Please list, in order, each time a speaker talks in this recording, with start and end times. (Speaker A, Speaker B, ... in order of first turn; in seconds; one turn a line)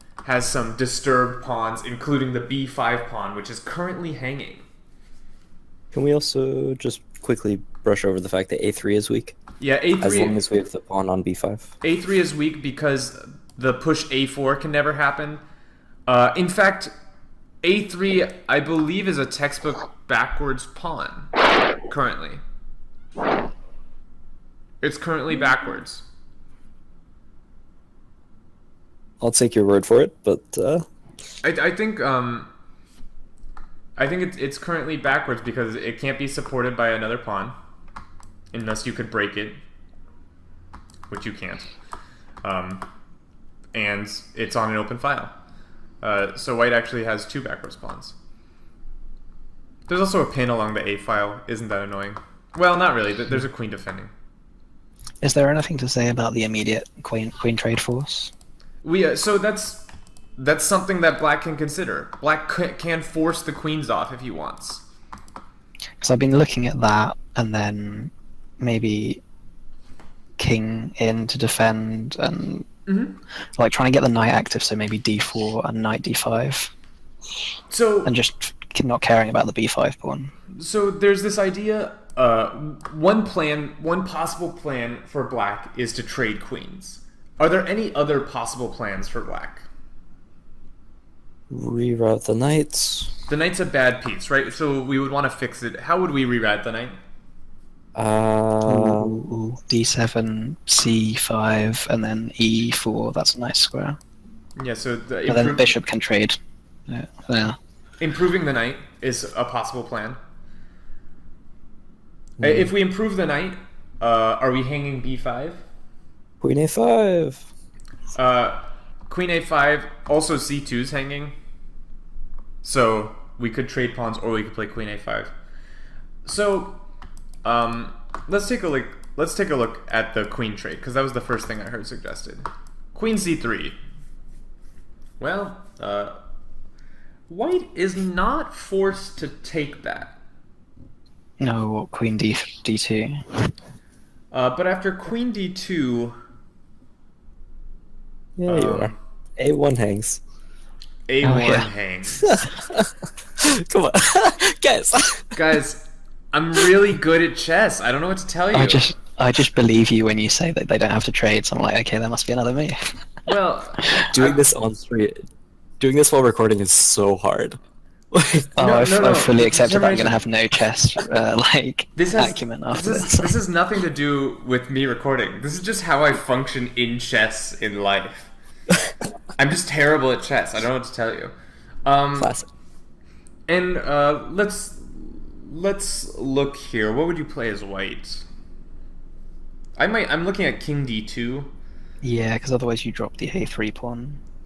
Speaker A: 0.2-4.6
Speaker B: 5.9-9.3
Speaker A: 9.6-10.4
Speaker B: 10.0-11.7
Speaker A: 11.8-15.4
Speaker A: 16.1-16.9
Speaker A: 17.6-21.3
Speaker A: 21.9-22.4
Speaker A: 24.8-26.1
Speaker B: 29.2-30.9
Speaker A: 31.4-32.5
Speaker A: 34.0-37.6
Speaker A: 38.5-39.6
Speaker A: 41.1-41.7
Speaker A: 42.4-42.9
Speaker A: 43.7-45.3
Speaker A: 46.0-48.1
Speaker A: 49.9-54.1
Speaker C: 55.2-58.3
Speaker A: 58.8-64.8
Speaker C: 66.0-69.2
Speaker C: 70.4-72.7
Speaker A: 72.9-73.2
Speaker C: 73.6-76.7
Speaker A: 77.7-78.1
Speaker C: 78.0-80.3
Speaker A: 80.5-89.7
Speaker B: 91.5-93.1
Speaker A: 93.3-97.0
Speaker B: 98.0-99.2
Speaker C: 98.7-104.0
Speaker A: 104.6-105.7
Speaker C: 105.3-106.4
Speaker C: 106.9-107.6
Speaker A: 108.0-110.2
Speaker A: 112.4-115.7
Speaker B: 112.4-112.7
Speaker B: 116.4-117.5
Speaker A: 118.2-121.3
Speaker A: 122.6-125.3
Speaker A: 126.2-126.8
Speaker A: 127.4-133.8
Speaker A: 135.2-136.2
Speaker A: 137.3-140.2
Speaker C: 141.4-143.2
Speaker A: 144.3-146.2
Speaker B: 148.4-150.2
Speaker A: 148.5-149.0
Speaker A: 151.1-152.5
Speaker C: 151.2-151.7
Speaker B: 152.3-155.4
Speaker A: 155.3-158.8
Speaker C: 158.5-162.8
Speaker A: 163.3-164.4
Speaker B: 164.1-165.2
Speaker B: 165.8-167.6
Speaker B: 168.1-168.6
Speaker C: 168.6-173.3
Speaker A: 168.6-170.2
Speaker A: 172.0-178.3
Speaker A: 179.4-181.3
Speaker A: 181.8-182.3
Speaker B: 182.2-182.5
Speaker A: 183.5-188.2
Speaker A: 189.8-191.5
Speaker C: 192.0-194.2